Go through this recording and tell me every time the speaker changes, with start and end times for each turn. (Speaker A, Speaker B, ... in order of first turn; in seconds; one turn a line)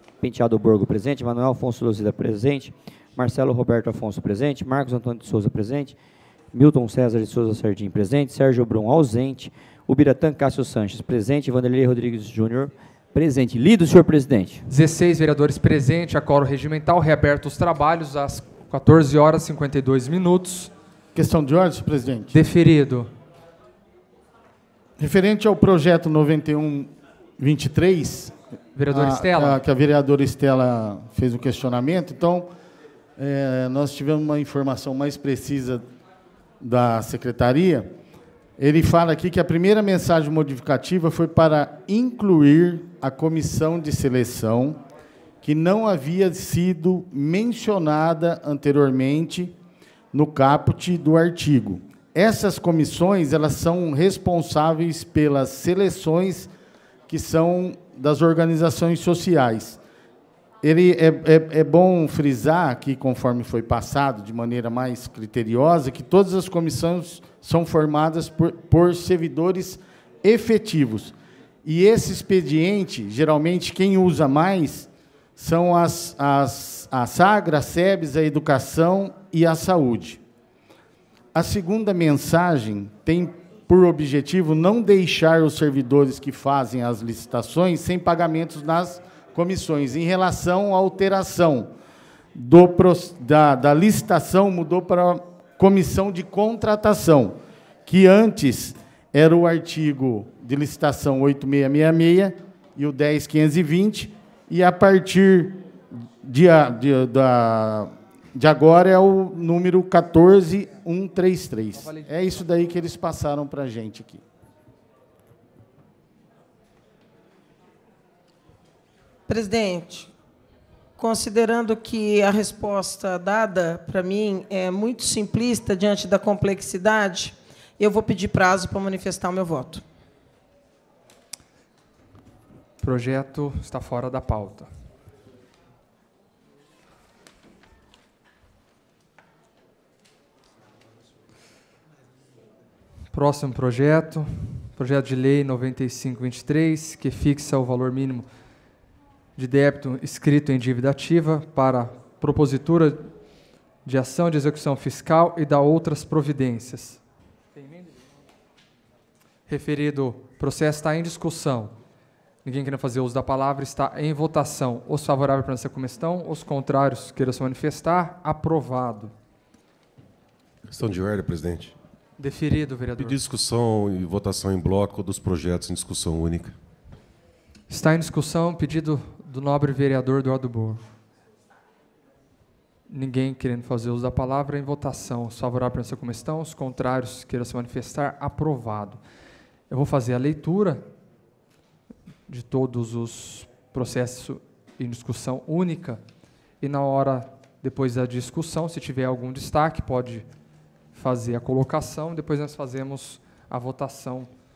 Speaker A: 0.2-6.0
Speaker A: 6.5-14.6
Speaker B: 14.7-20.7
Speaker C: 21.1-22.3
Speaker B: 22.3-23.1
Speaker C: 25.0-28.4
Speaker B: 28.7-29.6
Speaker C: 28.9-32.5
Speaker C: 33.2-35.9
Speaker C: 36.6-37.9
Speaker C: 38.6-44.8
Speaker C: 45.4-49.5
Speaker C: 50.1-56.5
Speaker C: 57.1-59.8
Speaker C: 60.6-71.1
Speaker C: 71.6-80.2
Speaker C: 81.3-91.7
Speaker C: 92.3-105.5
Speaker C: 106.2-114.2
Speaker B: 111.8-112.1
Speaker D: 119.3-120.1
Speaker D: 121.0-129.8
Speaker B: 132.8-134.7
Speaker B: 143.1-148.2
Speaker B: 149.4-153.1
Speaker B: 153.8-157.0
Speaker B: 159.5-161.7
Speaker B: 162.4-169.1
Speaker E: 170.7-171.7
Speaker B: 172.2-173.2
Speaker E: 173.0-176.6
Speaker B: 177.7-180.8
Speaker B: 182.9-189.0
Speaker B: 189.7-190.8
Speaker B: 192.3-196.0
Speaker B: 196.6-200.2
Speaker B: 200.9-204.3